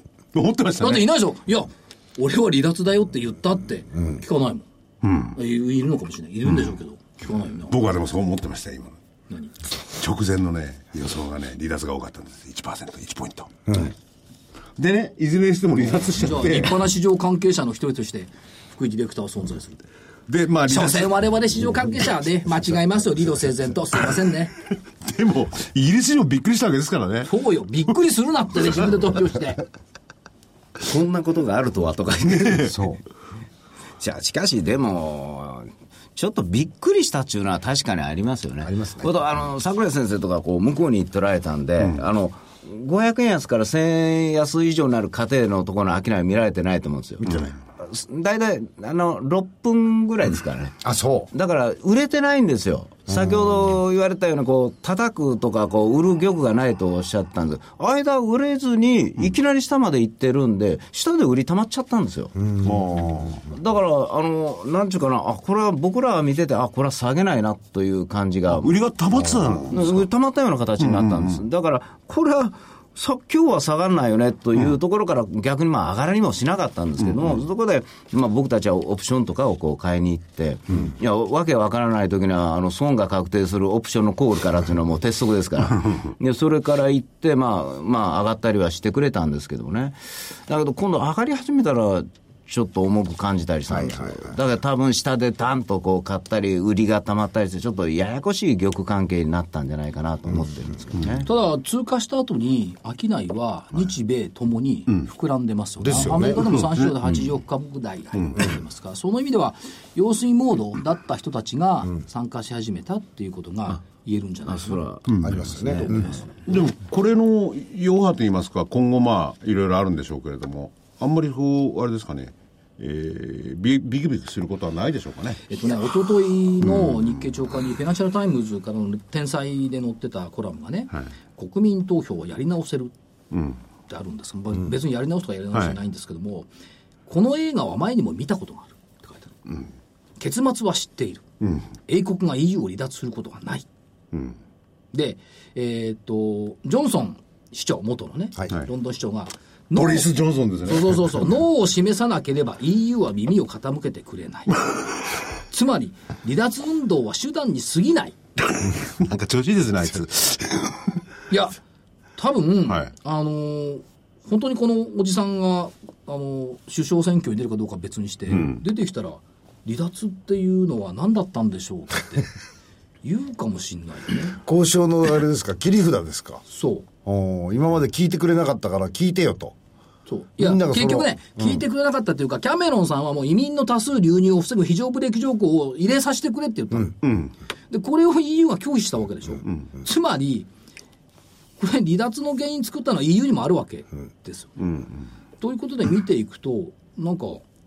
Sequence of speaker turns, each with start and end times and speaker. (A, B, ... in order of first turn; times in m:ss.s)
0:00.3-0:01.1 A
0:00.8-0:04.6 B
0:05.0-0:05.4 A
0:05.3-0:07.8 B
0:07.7-0:09.0 A
0:09.9-0:13.8 A
0:14.8-0:16.9 A
0:15.8-0:19.9 B
0:20.3-0:21.2 A
0:20.7-0:24.5 B
0:25.0-0:27.3 A
0:27.2-0:29.6 B
0:30.8-0:32.8 C
0:32.3-0:32.7 A
0:32.6-0:33.0 D
0:34.0-1:02.4 C
0:38.6-0:39.2 D
0:47.2-0:47.5 D
0:50.8-0:51.3 D
1:02.4-1:03.3 D
1:02.6-1:03.4 A
1:03.5-1:08.8 C
1:08.5-1:10.0 A
1:09.2-1:09.6 D
1:09.7-1:41.3 C
1:10.8-1:11.4 A
1:17.1-1:17.4 A
1:33.7-1:34.4 D
1:41.2-1:54.8 B
1:45.8-1:46.6 D
1:46.3-1:46.9 A
1:48.2-1:48.5 A
1:54.5-1:56.2 C
1:55.1-1:55.4 A
1:55.2-1:56.2 D
1:55.8-1:56.2 B
1:56.5-2:05.4 A
2:05.5-2:12.9 B
2:06.6-2:07.1 A
2:13.3-2:13.6 A
2:13.9-2:16.5 B
2:15.5-2:15.8 A
2:17.0-2:19.4 B
2:20.2-2:21.2 B
2:21.4-2:21.7 A
2:21.9-2:23.6 B
2:24.9-2:34.6 B
2:29.8-2:31.3 A
2:35.5-2:38.1 B
2:38.5-2:40.8 A
2:41.3-2:41.5 B
2:42.2-2:52.3 B
2:48.3-2:48.6 A
2:53.0-2:54.4 B
2:54.3-2:56.4 D
2:56.5-2:56.9 B
2:57.0-2:59.5 D
3:00.1-3:07.0 B
3:00.4-3:01.6 D
3:07.0-3:07.3 A
3:07.7-3:10.5 B
3:11.6-3:14.6 B
3:14.6-3:15.0 A
3:15.4-3:17.4 B